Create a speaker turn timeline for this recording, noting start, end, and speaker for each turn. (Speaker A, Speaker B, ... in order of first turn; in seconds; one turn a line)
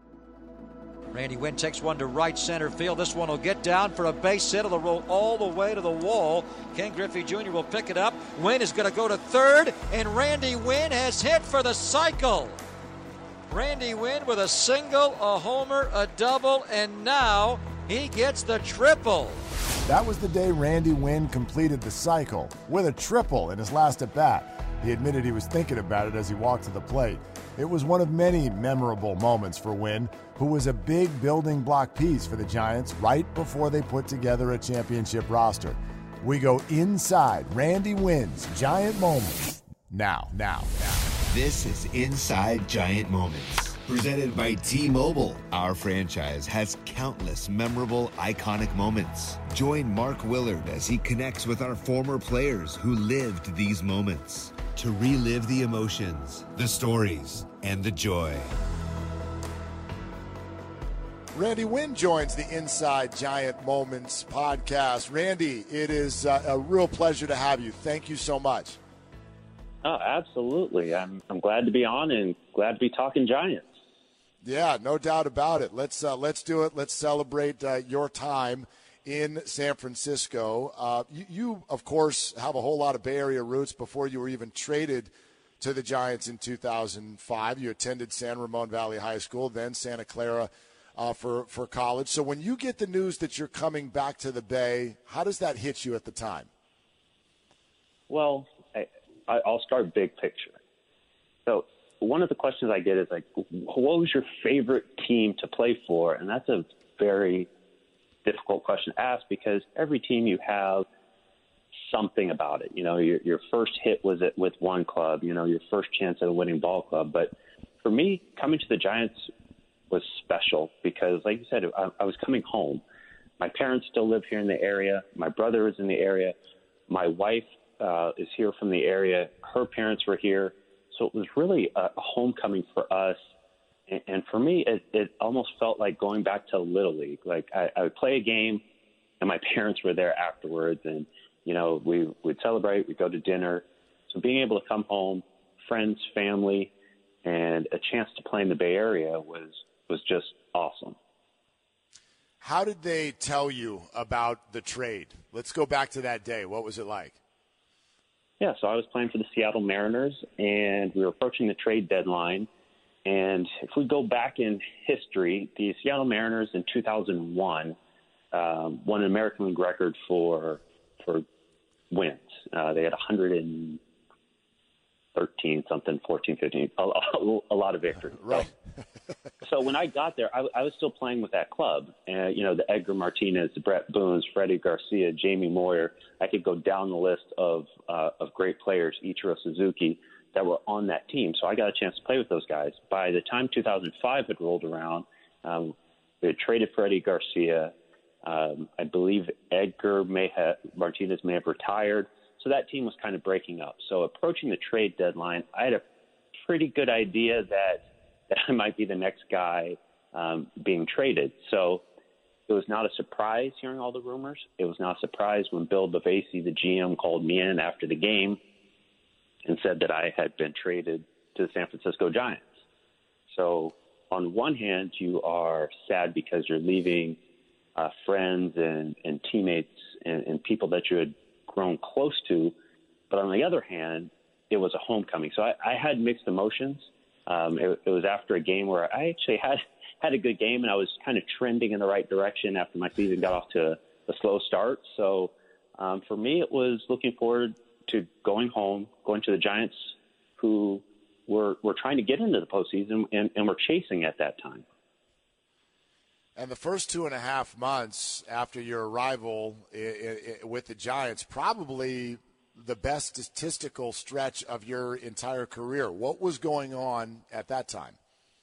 Speaker A: 1.1-12.6
Speaker A: 13.5-19.4
Speaker B: 19.9-41.1
Speaker C: 41.2-58.5
Speaker B: 61.3-68.8
Speaker D: 69.8-73.8
Speaker B: 74.4-96.5
Speaker D: 98.1-100.6
Speaker D: 101.5-107.5
Speaker D: 108.2-110.8
Speaker D: 111.9-119.3
Speaker D: 119.9-122.8
Speaker D: 123.4-126.3
Speaker D: 126.9-133.2
Speaker D: 133.9-138.6
Speaker D: 139.2-146.7
Speaker D: 147.2-151.0
Speaker B: 152.4-157.2
Speaker D: 158.4-162.5
Speaker D: 163.0-167.8
Speaker D: 168.3-171.2
Speaker D: 171.9-173.8
Speaker D: 175.1-178.5
Speaker D: 179.4-197.7
Speaker D: 198.2-205.8
Speaker D: 206.4-211.8
Speaker D: 212.5-218.4
Speaker D: 219.4-222.5
Speaker D: 223.3-227.2
Speaker D: 227.8-232.5
Speaker D: 233.1-254.6
Speaker B: 256.4-268.0